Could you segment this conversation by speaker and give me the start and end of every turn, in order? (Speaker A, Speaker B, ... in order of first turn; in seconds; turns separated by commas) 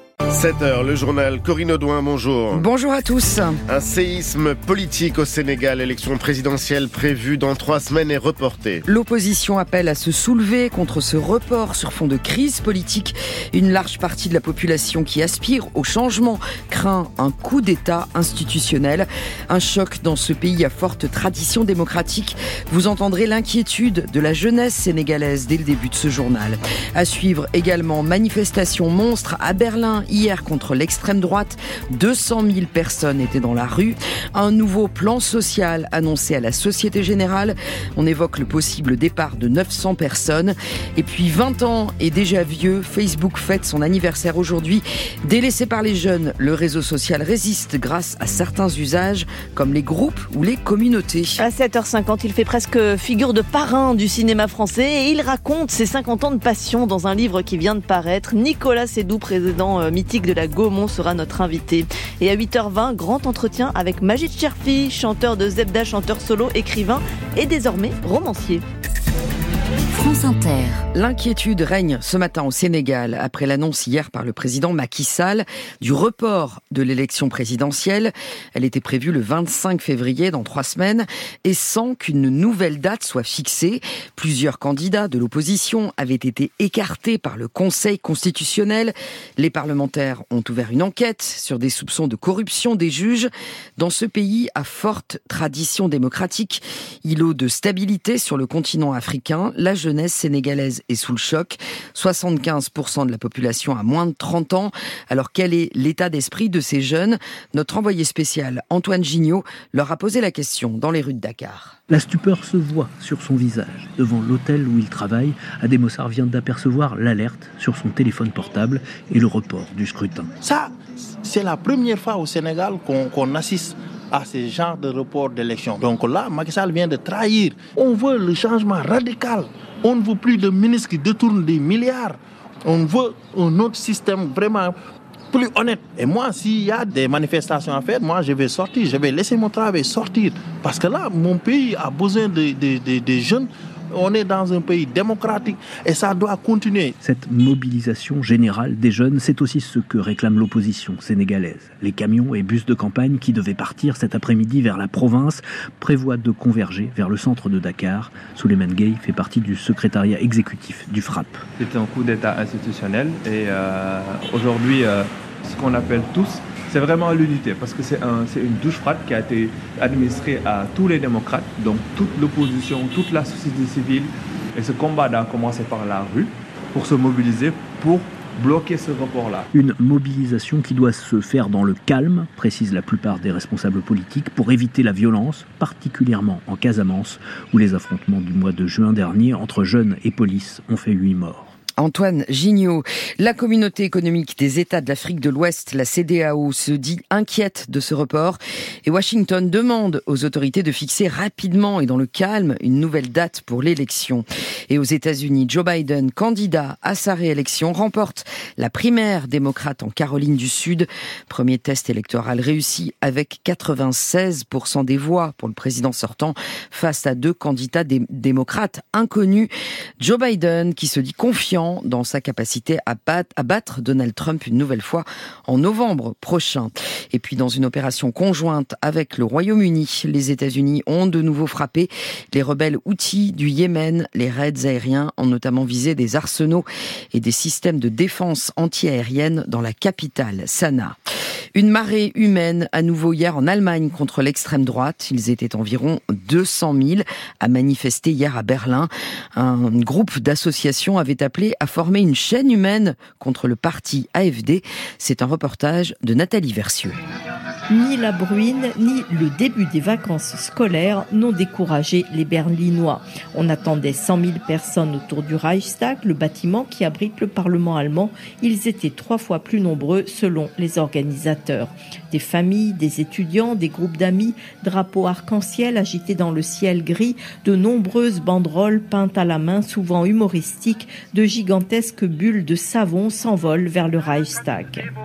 Speaker A: 0.3-2.6, Speaker B: 2.5-3.6, Speaker A: 3.7-8.8, Speaker B: 8.9-51.4, Speaker C: 51.4-68.6, Speaker B: 70.9-111.8, Speaker D: 111.9-120.3, Speaker E: 120.4-120.7, Speaker E: 121.2-134.8, Speaker E: 135.3-146.9, Speaker D: 147.0-161.4, Speaker F: 161.6-179.4, Speaker D: 179.5-191.5, Speaker B: 191.8-241.0, Speaker B: 241.6-257.0, Speaker G: 257.7-284.9